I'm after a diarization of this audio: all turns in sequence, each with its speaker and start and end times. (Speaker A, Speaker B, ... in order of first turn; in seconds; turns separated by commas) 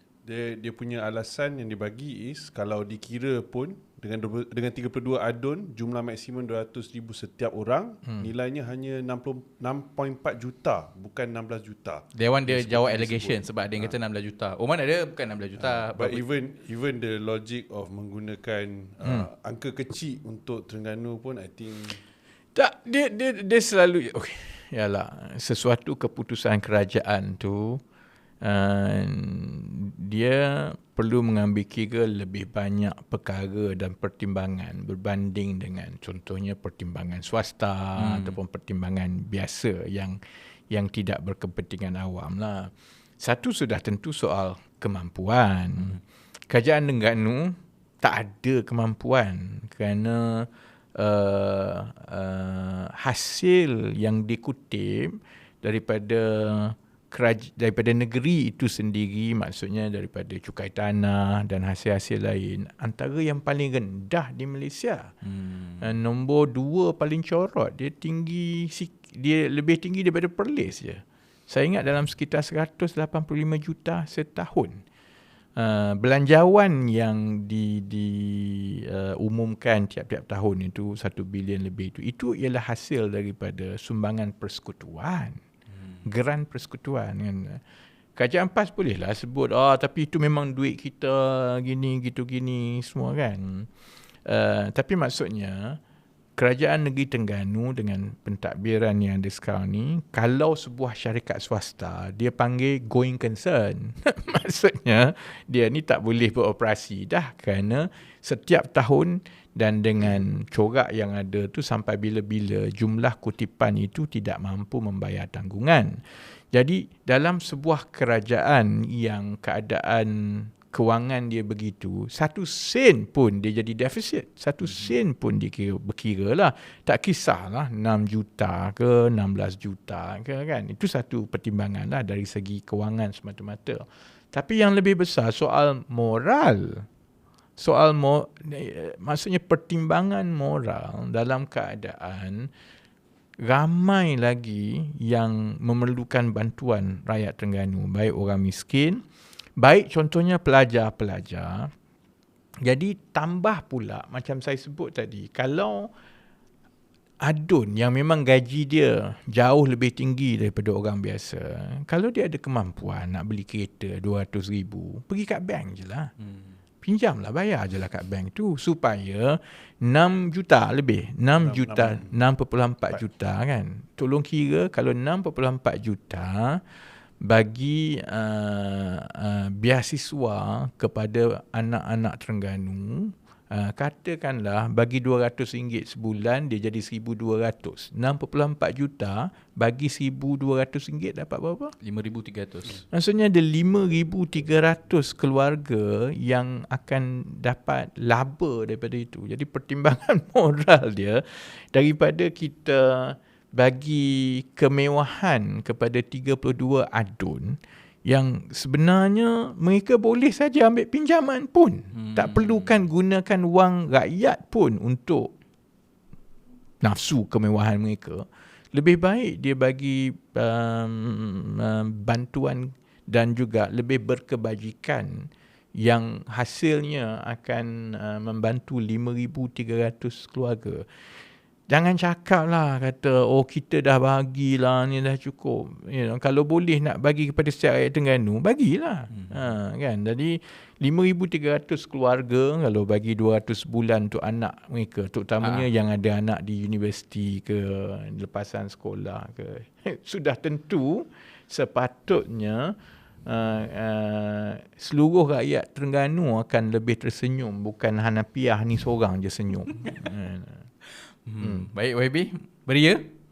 Speaker A: 0.2-13.9, Speaker B: 12.1-16.2, Speaker A: 15.6-22.0, Speaker C: 22.6-27.8, Speaker C: 28.4-40.2, Speaker B: 38.0-38.4, Speaker C: 40.7-65.1, Speaker B: 65.2-65.9, Speaker C: 65.8-74.8, Speaker C: 75.6-85.4, Speaker C: 86.0-87.6, Speaker C: 88.2-93.7, Speaker C: 94.3-95.8, Speaker C: 96.4-136.9, Speaker C: 137.6-142.5, Speaker C: 143.4-149.0, Speaker C: 149.6-151.7, Speaker C: 152.6-155.9, Speaker C: 157.2-166.1, Speaker C: 166.8-176.6, Speaker A: 171.4-172.2, Speaker C: 177.2-191.8, Speaker B: 191.8-192.8, Speaker C: 192.8-215.3, Speaker B: 211.9-212.8, Speaker C: 216.8-230.9, Speaker C: 231.7-260.7, Speaker B: 239.1-239.4, Speaker B: 245.4-245.7, Speaker B: 261.2-263.1, Speaker C: 261.4-261.7